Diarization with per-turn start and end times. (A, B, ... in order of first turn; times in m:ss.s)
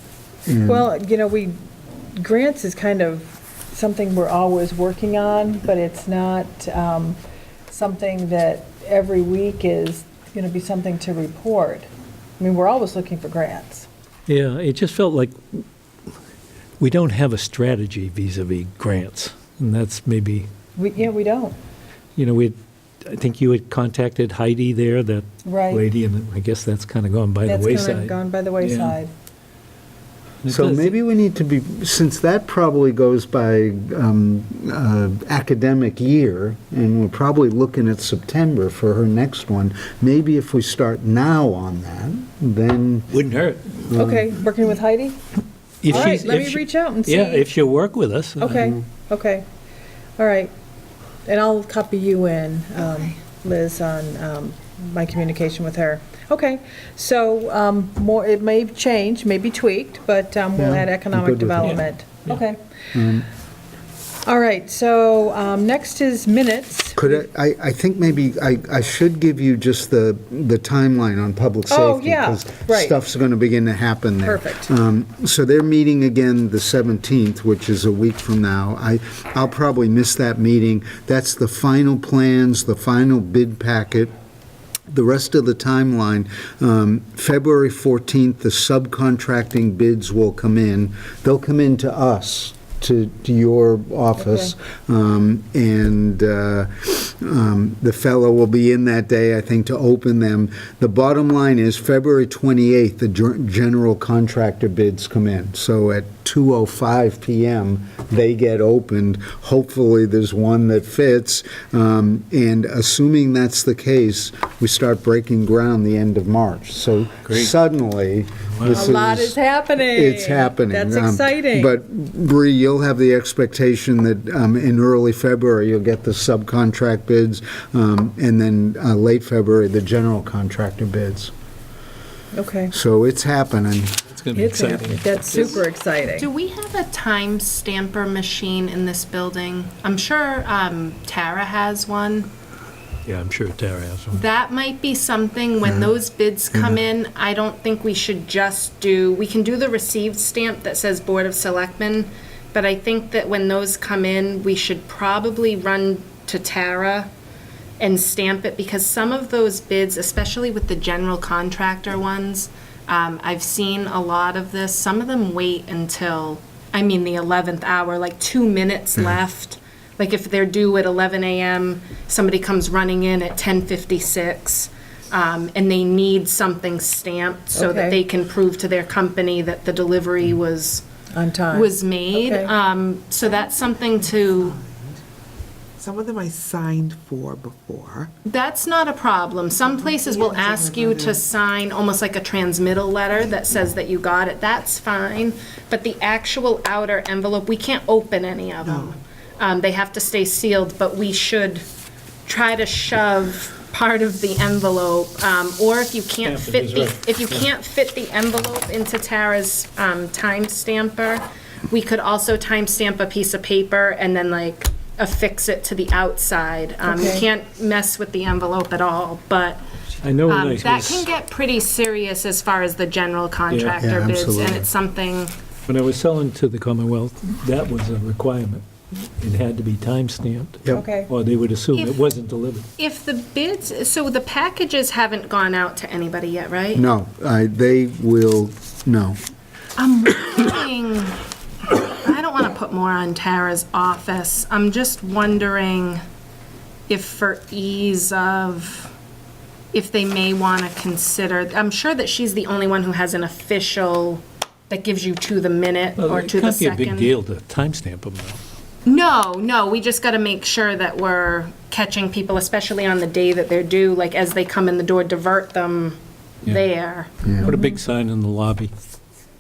0:00.5-0:00.9 A
0:00.6-0:01.6 B
0:02.2-0:07.2 B
0:07.7-0:11.9 B
0:12.4-0:13.9 B
0:14.3-0:15.6 C
0:16.8-0:20.5 C
0:20.8-0:21.6 B
0:22.2-0:22.6 C
0:23.1-0:29.0 C
0:25.4-0:25.8 B
0:27.5-0:29.1 B
0:30.4-0:30.9 C
0:30.5-0:43.1 A
0:43.1-0:43.8 C
0:43.9-0:44.3 A
0:43.9-0:45.2 B
0:45.8-0:48.8 C
0:45.9-0:47.5 B
0:48.4-0:49.4 B
0:50.2-0:50.5 B
0:51.2-1:02.6 B
1:00.6-1:01.8 A
1:03.0-1:03.3 A
1:04.2-1:07.2 B
1:07.0-1:24.1 A
1:11.7-1:13.0 B
1:14.2-1:14.7 B
1:24.9-2:11.3 A
1:34.2-1:34.5 B
1:57.3-1:57.5 C
1:58.6-1:58.9 C
1:58.7-2:01.7 B
2:12.3-2:12.7 B
2:12.7-2:13.9 A
2:14.2-2:15.6 C
2:14.3-2:16.3 B
2:15.3-2:22.3 D
2:23.1-2:24.2 C
2:24.1-2:37.1 D
2:25.6-2:25.9 A
2:26.5-2:26.8 A
2:37.8-3:00.8 D
2:57.6-2:58.0 B
3:01.1-3:02.5 B
3:01.5-3:04.6 D
3:04.4-3:05.0 E
3:05.8-3:08.1 E
3:08.2-3:21.6 D
3:09.7-3:11.2 E
3:18.6-3:19.0 E
3:22.3-3:39.6 D
3:26.2-3:27.4 C
3:36.8-3:37.3 B
3:40.0-3:41.1 C
3:40.3-3:45.3 D
3:43.5-3:43.8 C
3:43.8-3:44.7 A
3:45.7-3:48.6 C
3:49.2-3:52.7 C
3:50.7-3:51.1 B
3:51.7-3:52.0 D
3:52.8-3:56.8 D
3:56.7-3:59.2 A
3:59.8-4:06.0 D
4:06.9-4:08.9 D
4:09.7-4:17.1 D
4:16.0-4:18.4 C
4:18.9-4:27.1 D
4:27.2-4:27.6 A
4:27.4-4:28.7 C
4:27.5-4:27.8 B